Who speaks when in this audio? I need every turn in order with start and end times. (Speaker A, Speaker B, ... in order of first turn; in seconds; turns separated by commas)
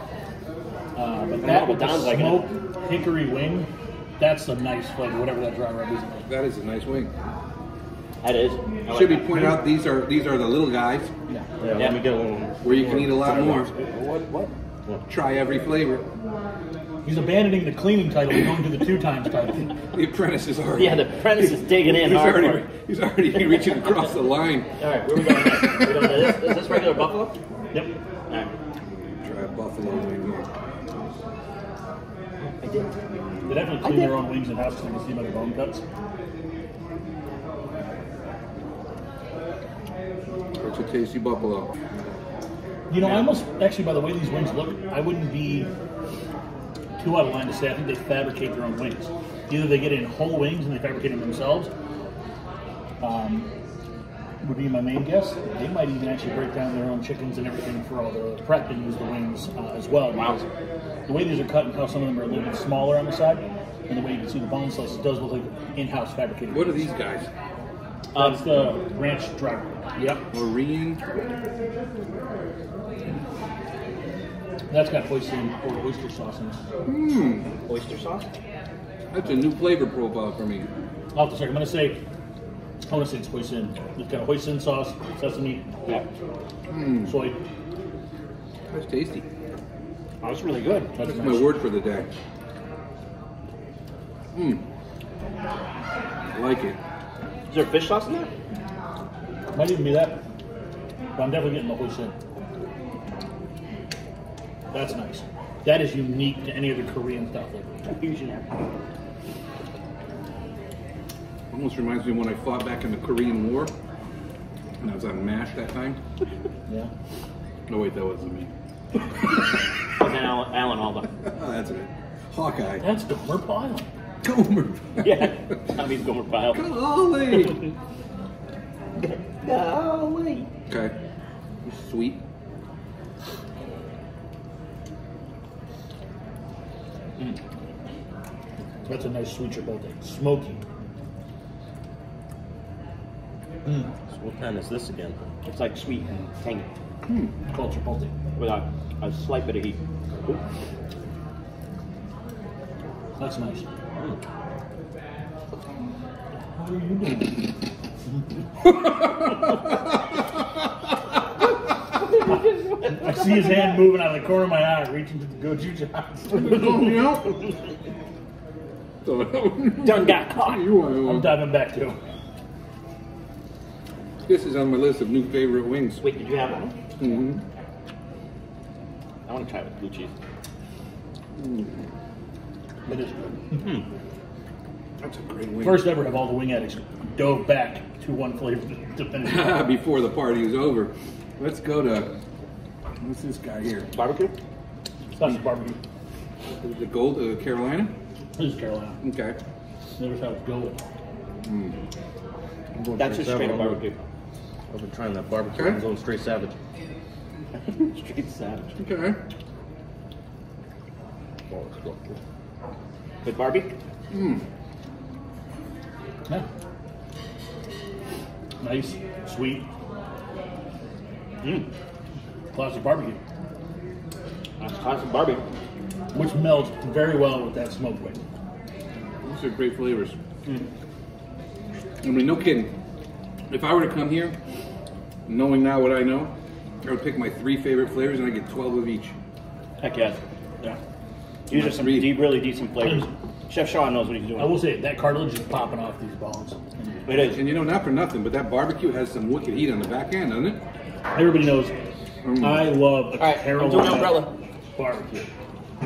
Speaker A: 0.9-6.2, Speaker B: 1.4-2.5, Speaker C: 6.3-7.1, Speaker B: 8.2-9.6, Speaker C: 8.9-11.1, Speaker D: 11.6-15.0, Speaker C: 12.6-13.7, Speaker C: 15.1-16.1, Speaker A: 17.0-19.8, Speaker C: 19.9-26.7, Speaker B: 20.8-22.7, Speaker B: 24.8-27.4, Speaker C: 29.2-30.5, Speaker B: 32.4-32.9, Speaker A: 33.5-35.8, Speaker B: 33.8-34.2, Speaker C: 40.6-41.7, Speaker A: 42.9-45.7, Speaker A: 47.0-51.7, Speaker A: 53.0-53.5, Speaker A: 54.4-60.4, Speaker B: 60.2-60.4, Speaker A: 61.1-66.9, Speaker C: 66.5-67.3, Speaker B: 68.1-68.7, Speaker A: 68.1-70.2, Speaker C: 70.3-71.0, Speaker A: 74.7-76.6, Speaker C: 76.8-77.5, Speaker B: 77.7-78.3, Speaker C: 79.1-80.7, Speaker A: 81.1-82.0, Speaker A: 82.8-85.7, Speaker C: 86.7-87.1, Speaker A: 87.0-87.4, Speaker C: 88.7-89.2, Speaker B: 90.2-90.9, Speaker A: 90.9-91.5, Speaker C: 91.0-92.1, Speaker C: 94.3-94.6, Speaker C: 96.3-96.8, Speaker B: 97.5-98.3, Speaker A: 99.5-100.2, Speaker A: 101.2-102.1, Speaker A: 104.7-107.9, Speaker B: 107.8-108.7, Speaker C: 111.5-113.7, Speaker C: 114.8-116.0, Speaker C: 117.7-118.5, Speaker B: 120.0-121.1, Speaker C: 121.2-122.8, Speaker A: 122.8-123.9, Speaker C: 124.2-125.3, Speaker B: 125.0-126.6, Speaker C: 126.5-127.6, Speaker B: 129.0-130.5, Speaker C: 130.7-131.0, Speaker C: 131.7-132.2, Speaker A: 138.8-140.6, Speaker D: 144.1-145.2, Speaker B: 145.4-146.7, Speaker A: 147.5-148.1, Speaker B: 148.3-150.4, Speaker A: 153.2-153.7, Speaker A: 156.5-157.5, Speaker C: 158.8-160.2, Speaker B: 162.0-163.7, Speaker A: 162.8-166.9, Speaker C: 166.3-167.4, Speaker C: 169.0-171.4, Speaker B: 169.8-170.7, Speaker A: 171.0-172.0, Speaker C: 174.3-176.0, Speaker B: 176.0-176.8, Speaker C: 177.0-177.4, Speaker B: 179.3-180.1, Speaker C: 181.4-181.8, Speaker A: 182.8-183.7, Speaker C: 185.0-185.9, Speaker A: 185.6-189.6, Speaker C: 189.2-192.1, Speaker C: 193.0-193.9, Speaker B: 193.9-194.3, Speaker A: 195.1-195.8, Speaker C: 196.6-197.9, Speaker A: 198.3-199.0, Speaker C: 199.0-199.4, Speaker A: 200.0-200.8, Speaker C: 201.4-201.8, Speaker D: 202.7-203.8, Speaker B: 202.9-204.0, Speaker D: 204.7-206.5, Speaker B: 207.6-208.8, Speaker C: 208.8-209.2, Speaker D: 211.5-212.2, Speaker B: 213.2-213.7, Speaker C: 214.1-214.4, Speaker A: 218.6-219.7, Speaker A: 222.5-223.2, Speaker B: 224.6-225.4, Speaker A: 226.1-228.2, Speaker C: 229.2-230.2, Speaker C: 232.0-232.7, Speaker C: 233.5-234.3, Speaker C: 235.3-239.1, Speaker B: 239.8-240.8, Speaker B: 241.5-244.6, Speaker C: 241.5-242.2, Speaker A: 242.8-243.1, Speaker A: 244.4-247.4, Speaker B: 247.1-247.4, Speaker C: 247.3-250.6, Speaker A: 251.1-251.7, Speaker C: 252.2-252.7, Speaker A: 252.4-255.3, Speaker B: 253.2-254.3